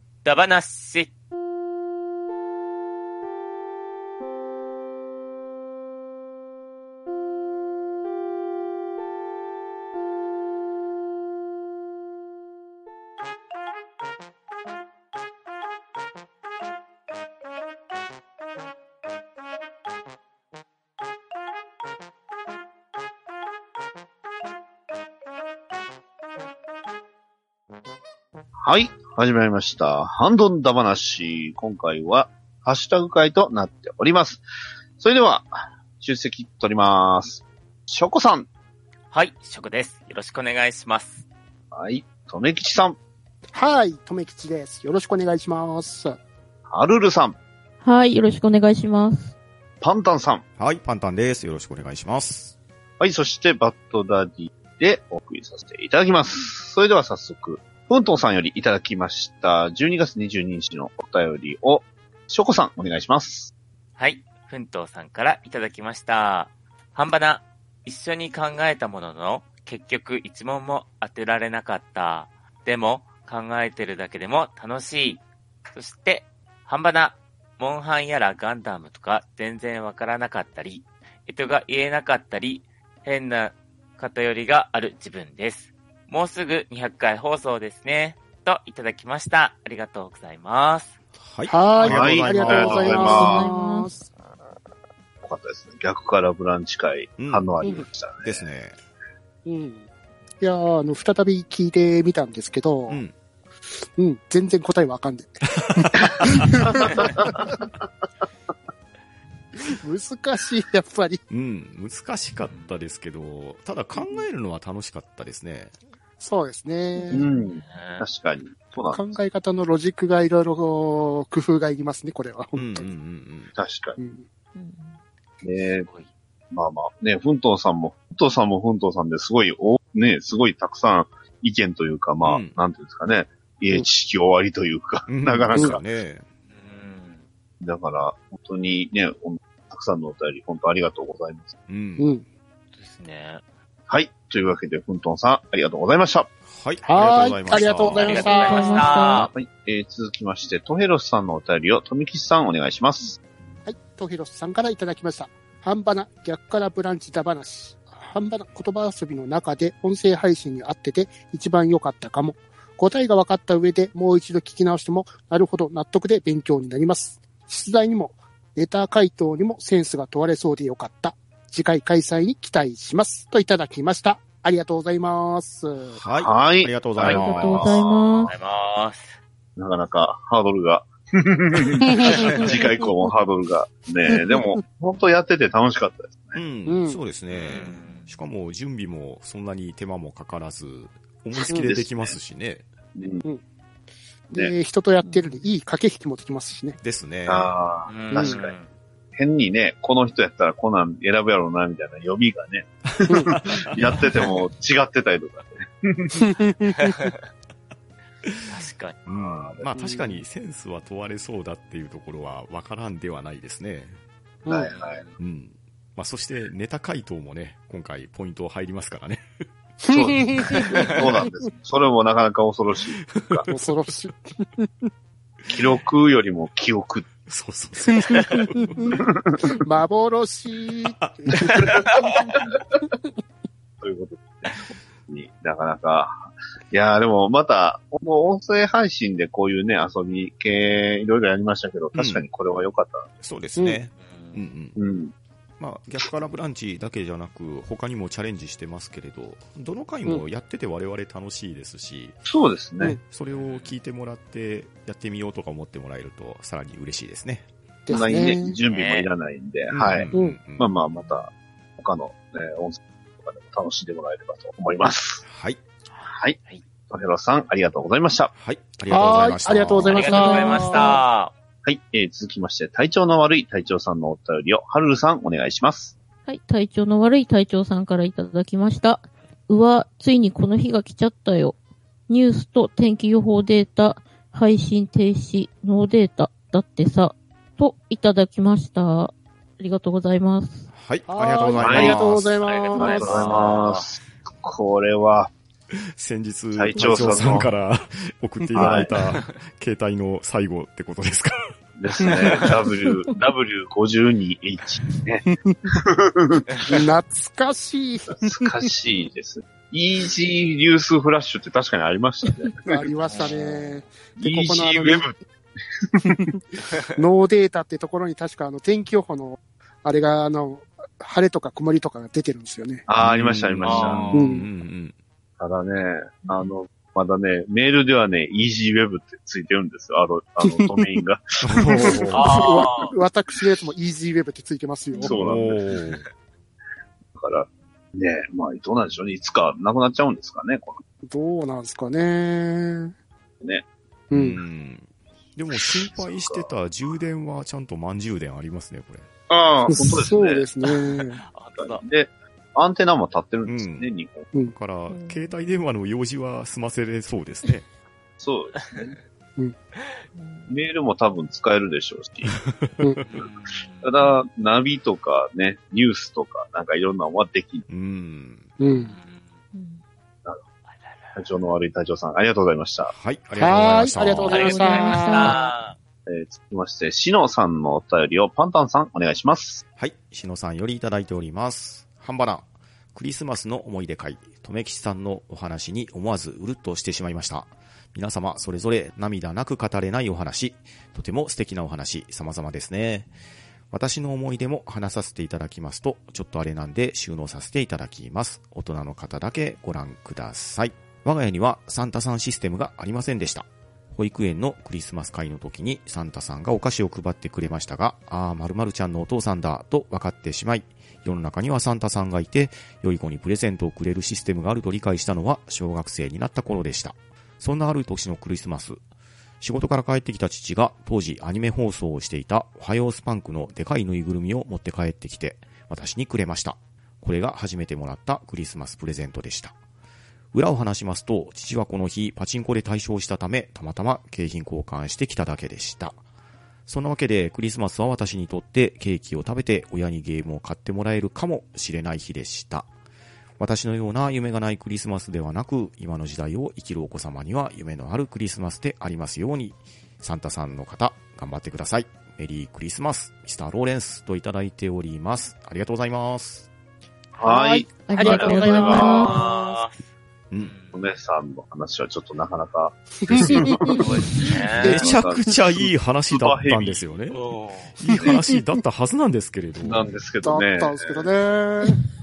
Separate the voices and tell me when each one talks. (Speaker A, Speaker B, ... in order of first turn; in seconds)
Speaker A: 0.2-1.1, 39.1-41.2, 64.0-91.0, 112.5-112.7, 117.6-118.0, 125.8-126.1, 136.5-137.2, 142.7-143.4, 147.8-149.3, 178.3-179.2, 182.1-182.5, 187.3-188.2, 197.9-198.7, 208.5-209.0, 214.6-215.2, 220.5-220.8, 244.0-244.4, 253.3-253.8, 258.7-259.1, 269.8-271.3, 292.4-293.9, 313.0-313.8, 323.6-324.3, 332.1-332.9, 351.2-351.8, 363.0-364.1, 368.7-369.4, 370.7-371.4, 374.3-375.8, 458.9-460.8, 463.8-464.9, 467.1-467.8
Speaker B: 28.6-34.4, 35.0-38.5, 41.7-43.0, 46.7-47.4, 49.8-50.4, 53.0-63.5, 91.8-93.4, 95.2-98.4, 117.1-119.1, 123.5-124.0, 125.4-125.9, 126.5-135.8, 137.6-141.5, 143.9-146.3, 149.0-153.2, 176.2-178.3, 179.6-186.4, 191.5-192.2, 192.9-193.2, 197.3-198.5, 199.2-206.2, 209.1-209.7, 214.4-215.0, 219.9-223.5, 225.5-227.1, 229.1-229.4, 233.8-234.5, 235.1-243.1, 244.8-245.1, 252.3-253.0, 257.9-265.2, 266.0-266.4, 266.9-268.3, 271.6-275.9, 291.6-292.0, 292.7-295.3, 296.5-297.5, 298.6-298.9, 301.8-306.8, 308.1-312.9, 314.2-315.1, 322.9-324.1, 325.4-332.1, 335.0-335.6, 337.1-340.8, 343.4-343.6, 345.9-346.5, 349.3-350.5, 351.6-354.3, 358.2-359.0, 360.5-362.4, 363.8-367.6, 371.1-372.9, 376.1-379.6, 457.2-459.2, 460.7-466.9, 469.6-471.1
Speaker C: 43.5-46.2, 91.5-94.1, 99.5-99.8, 100.4-103.0, 104.0-107.6, 109.7-111.2, 113.9-114.2, 116.2-117.2, 118.9-122.9, 124.0-124.2, 142.0-142.2, 146.9-149.3, 153.6-176.0, 181.8-182.9, 186.7-187.0, 194.3-196.8, 198.1-198.4, 203.1-203.3, 206.1-207.1, 209.7-210.2, 219.9-221.0, 223.5-224.9, 227.9-231.9, 257.9-258.6, 260.1-260.4, 268.9-271.0, 291.1-293.6, 296.8-297.3, 298.4-298.8, 305.3-305.8, 306.6-308.6, 312.6-315.1, 316.0-322.9, 324.1-324.5, 331.6-335.2, 341.1-342.9, 344.1-344.4, 349.7-351.2, 368.6-368.9, 373.4-375.5, 457.2-459.5, 463.1-463.8, 467.9-468.2, 470.2-471.8
Speaker D: 47.8-49.3, 92.8-93.9, 117.0-117.3, 124.5-125.0, 148.1-149.2, 177.0-178.3, 270.1-270.7, 276.3-281.6, 282.1-290.7, 354.9-355.3, 360.1-360.5, 369.5-369.8, 374.2-375.4, 457.8-459.3
Speaker E: 50.6-52.5, 91.2-93.3, 97.2-97.7, 98.2-98.8, 102.9-103.1, 105.7-106.5, 111.3-115.7, 122.5-123.5, 132.2-132.5, 135.1-136.2, 141.7-142.1, 146.5-148.4, 175.9-177.8, 186.3-192.7, 196.8-197.5, 202.9-204.0, 208.2-208.5, 209.1-214.0, 215.2-219.2, 220.4-221.0, 223.2-223.5, 227.2-229.0, 230.9-231.7, 241.9-242.2, 243.2-244.8, 245.6-252.2, 253.0-257.4, 259.7-260.7, 265.2-265.6, 268.3-270.5, 290.7-292.3, 295.9-301.5, 323.0-324.9, 331.4-332.4, 335.0-336.1, 344.1-349.1, 353.4-353.9, 354.5-357.6, 362.4-363.0, 367.7-368.5, 372.9-374.6, 379.8-393.1, 393.7-418.8, 419.4-429.6, 430.3-436.0, 436.7-442.7, 443.4-456.5, 463.1-463.4, 464.6-467.2, 467.8-469.9